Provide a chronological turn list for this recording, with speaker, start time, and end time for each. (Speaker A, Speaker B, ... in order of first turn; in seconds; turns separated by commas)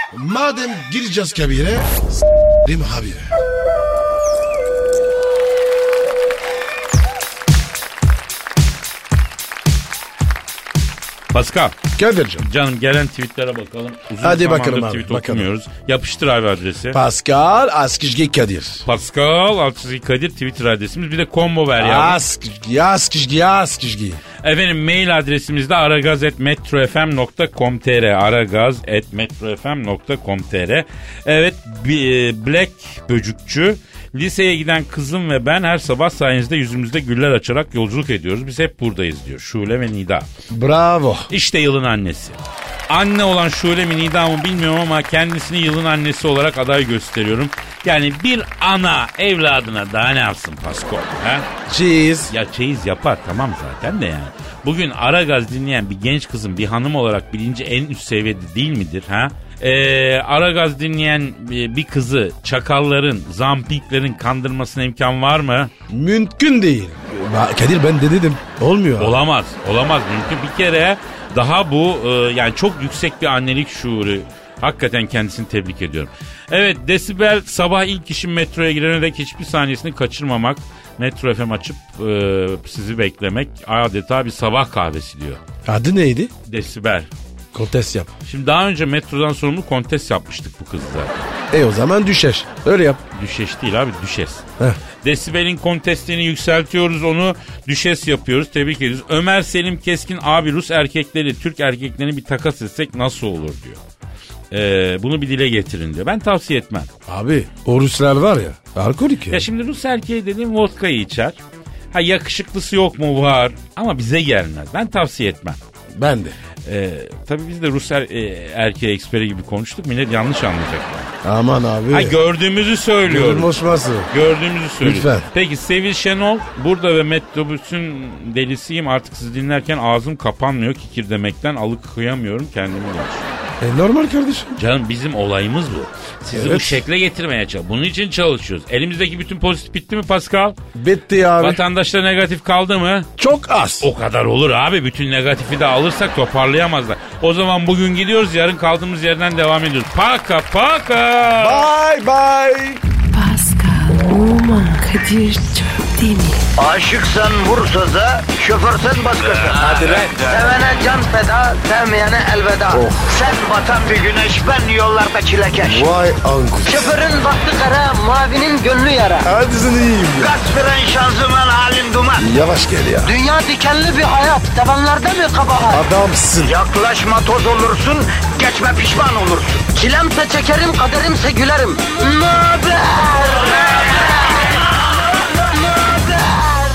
Speaker A: 0.1-2.0, Speaker A: 2.6-3.3, Speaker B: 11.3-11.8, Speaker A: 12.0-12.5, Speaker B: 12.4-17.0, Speaker A: 14.2-15.5, Speaker A: 16.9-18.9, Speaker B: 18.9-22.2, Speaker A: 21.8-24.2, Speaker B: 24.4-40.3, Speaker A: 40.5-41.3, Speaker B: 41.3-51.5, Speaker A: 51.7-52.3, Speaker B: 52.3-65.7, Speaker A: 65.9-69.2, Speaker B: 69.0-85.4, Speaker A: 85.7-86.3, Speaker B: 86.5-87.1, Speaker A: 87.5-88.1, Speaker B: 88.3-91.3, Speaker A: 91.5-93.0, Speaker B: 93.1-94.4, Speaker B: 95.0-103.8, Speaker B: 104.5-106.9, Speaker A: 107.1-109.5, Speaker B: 109.3-111.4, Speaker B: 111.9-115.6, Speaker A: 116.0-116.3, Speaker B: 116.7-121.1, Speaker A: 121.2-122.2, Speaker B: 121.9-123.5, Speaker A: 123.1-124.1, Speaker B: 124.1-133.3, Speaker A: 124.8-125.3, Speaker A: 133.6-134.6, Speaker B: 134.6-140.6, Speaker A: 136.3-136.8, Speaker A: 140.8-141.6, Speaker B: 141.4-143.1, Speaker A: 143.2-143.9, Speaker B: 143.8-151.7, Speaker A: 151.4-152.8, Speaker C: 153.1-156.4, Speaker D: 156.6-165.9, Speaker A: 159.3-160.4, Speaker A: 162.7-163.1, Speaker A: 165.6-166.9, Speaker D: 166.7-169.3, Speaker A: 169.2-170.3, Speaker D: 170.2-172.3, Speaker A: 172.2-173.1, Speaker D: 173.0-175.9, Speaker A: 175.7-176.5, Speaker D: 176.4-184.5, Speaker D: 185.7-186.5